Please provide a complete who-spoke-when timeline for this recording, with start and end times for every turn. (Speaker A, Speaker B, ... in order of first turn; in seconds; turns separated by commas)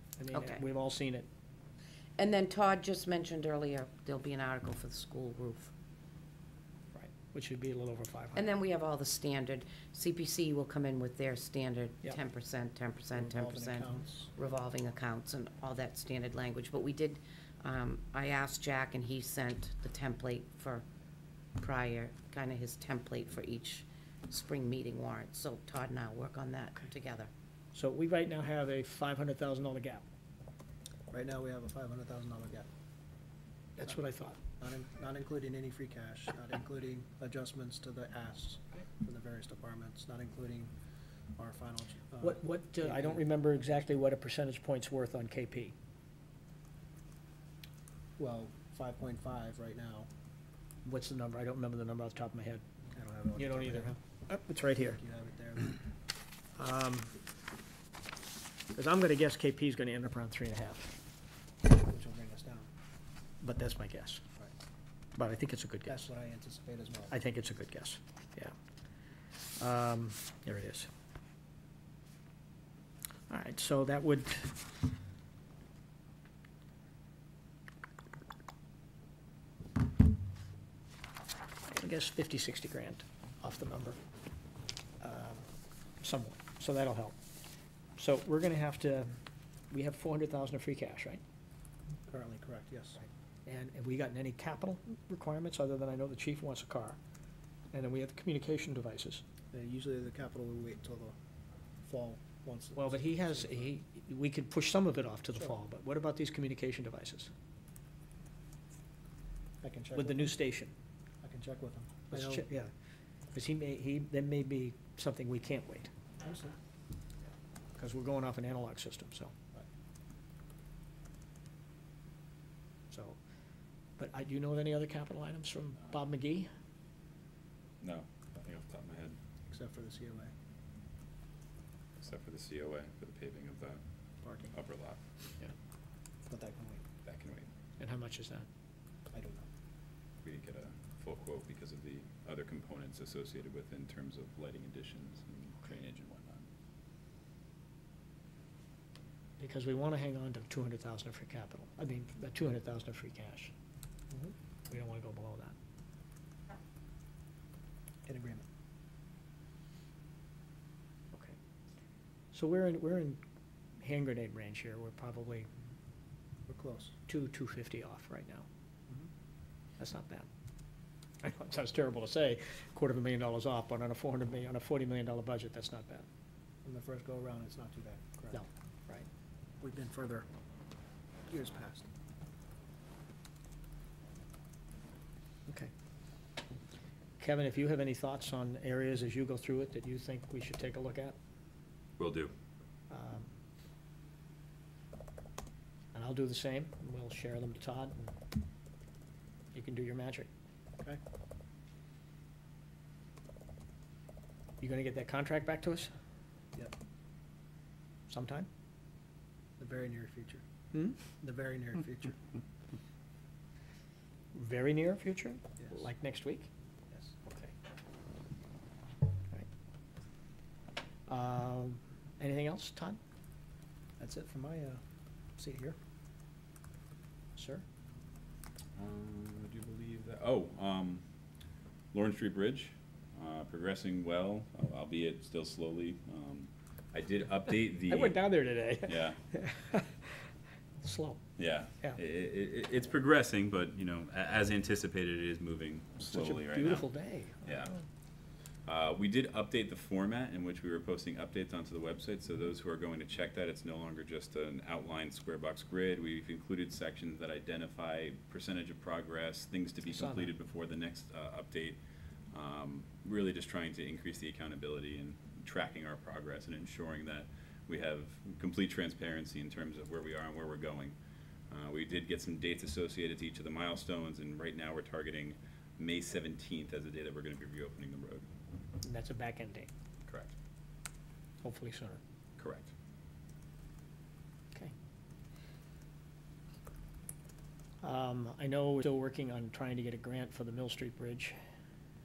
Speaker A: 0.2-1.3, Speaker B: 0.3-0.6, Speaker B: 2.2-5.7, Speaker A: 6.9-8.5, Speaker B: 8.3-20.9, Speaker C: 13.1-14.3, Speaker B: 21.6-27.3, Speaker A: 27.7-30.1, Speaker C: 31.1-32.7, Speaker A: 33.8-34.4, Speaker C: 34.6-40.7, Speaker C: 41.4-43.3, Speaker A: 42.2-45.7, Speaker C: 48.2-50.1, Speaker A: 50.9-52.6, Speaker C: 52.9-54.0, Speaker A: 53.4-55.0, Speaker C: 54.9-55.8, Speaker A: 56.6-57.2, Speaker A: 58.7-61.0, Speaker C: 61.8-62.7, Speaker A: 63.4-64.2, Speaker A: 65.2-66.0, Speaker C: 65.8-67.1, Speaker A: 67.1-68.5, Speaker A: 69.6-70.9, Speaker A: 73.3-74.6, Speaker A: 81.7-84.0, Speaker A: 85.0-85.5, Speaker A: 86.0-87.2, Speaker A: 88.0-89.1, Speaker A: 89.7-91.2, Speaker C: 92.1-93.1, Speaker A: 93.5-97.0, Speaker A: 97.7-99.2, Speaker C: 99.5-101.2, Speaker C: 101.8-103.7, Speaker A: 102.8-107.3, Speaker C: 109.6-110.4, Speaker A: 110.0-110.7, Speaker C: 111.2-112.5, Speaker A: 112.1-112.7, Speaker A: 113.3-115.9, Speaker C: 116.2-116.6, Speaker A: 117.8-119.3, Speaker A: 122.9-123.2, Speaker A: 124.0-126.5, Speaker D: 127.8-129.2, Speaker C: 129.5-130.3, Speaker D: 132.0-133.8, Speaker C: 134.2-134.6, Speaker D: 134.5-135.0, Speaker C: 136.3-136.8, Speaker D: 137.0-137.5, Speaker A: 137.8-138.5, Speaker C: 139.1-139.5, Speaker D: 140.2-146.5, Speaker A: 149.4-153.5, Speaker A: 154.7-155.5, Speaker C: 158.1-158.4, Speaker A: 162.3-163.2, Speaker A: 163.8-165.5, Speaker C: 166.5-166.9, Speaker A: 167.1-168.5, Speaker A: 169.8-170.3, Speaker A: 171.2-176.1, Speaker C: 176.7-178.4, Speaker A: 178.3-179.1, Speaker C: 179.6-180.3, Speaker C: 181.3-181.9, Speaker A: 187.2-191.2, Speaker D: 192.0-192.3, Speaker A: 192.9-193.3, Speaker A: 195.9-198.2, Speaker A: 199.5-200.3, Speaker A: 204.6-205.9, Speaker A: 208.1-208.5, Speaker C: 209.6-210.4, Speaker A: 210.7-211.0, Speaker C: 211.2-212.2, Speaker A: 214.3-216.5, Speaker C: 215.6-215.8, Speaker C: 216.9-217.2, Speaker A: 221.1-223.0, Speaker C: 224.0-224.8, Speaker C: 225.4-225.8, Speaker A: 227.4-227.6, Speaker D: 228.8-231.0, Speaker D: 231.9-238.2, Speaker A: 237.9-240.1, Speaker D: 238.8-239.2, Speaker A: 240.8-241.2, Speaker D: 241.4-246.9, Speaker A: 246.0-247.8, Speaker D: 247.4-247.7, Speaker D: 248.7-261.8, Speaker A: 259.9-260.3, Speaker D: 262.3-271.0, Speaker D: 271.5-278.3, Speaker A: 278.8-279.7, Speaker D: 280.1-280.3, Speaker A: 281.4-282.0, Speaker D: 282.4-282.7, Speaker A: 287.8-291.4